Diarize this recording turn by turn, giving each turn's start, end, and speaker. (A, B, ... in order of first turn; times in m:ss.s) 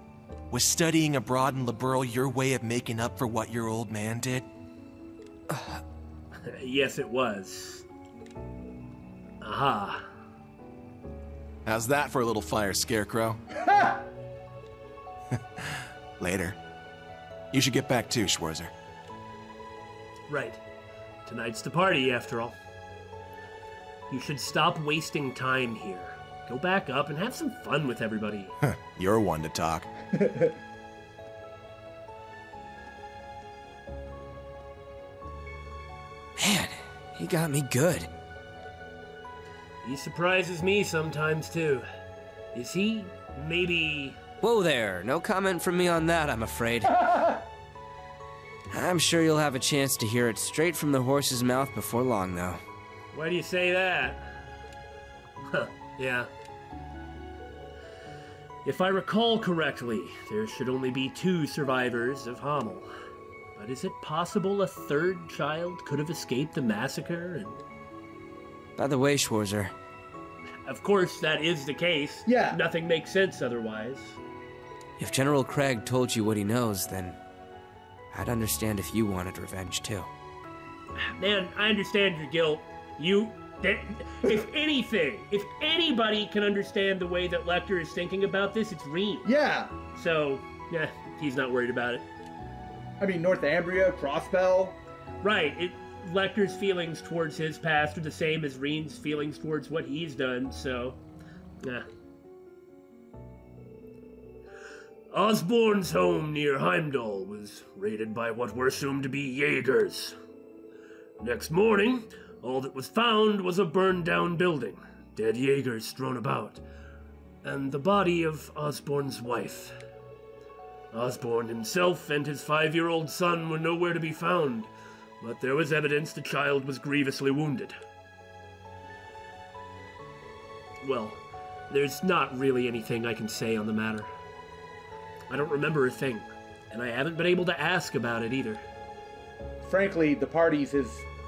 0:00.5-0:04.5 A
0:05.5-0:05.8 B
0:06.4-0:07.8 C
0:09.4-0:10.0 C
0:11.6-0:13.4 A
0:13.6-0:14.0 D
0:15.6-0:16.6 A
0:17.5-0:18.7 A
0:20.3-0:20.6 C
0:21.2-0:22.5 C
0:24.1-0:28.5 C
0:28.6-0:29.9 A
0:30.1-0:30.5 D
0:36.4-0:38.1 B
0:39.8-0:41.8 C
0:42.5-0:44.2 C
0:44.4-0:47.3 B
0:47.0-0:47.4 D
0:48.7-0:52.6 B
0:53.1-0:54.2 C
0:55.5-0:56.3 C
0:58.6-1:02.9 C
1:03.6-1:07.6 C
1:08.8-1:09.7 B
1:10.6-1:14.2 C
1:12.2-1:12.6 D
1:15.0-1:17.2 B
1:18.1-1:20.1 B
1:21.0-1:29.3 C
1:29.2-1:29.7 D
1:29.9-1:32.0 C
1:33.0-1:34.8 D
1:35.2-1:41.0 C
1:45.1-1:50.1 C
1:51.2-1:56.6 C
1:57.4-1:59.7 C
2:00.9-2:07.7 C
2:10.8-2:14.1 C
2:15.3-2:18.6 C
2:19.6-2:21.1 D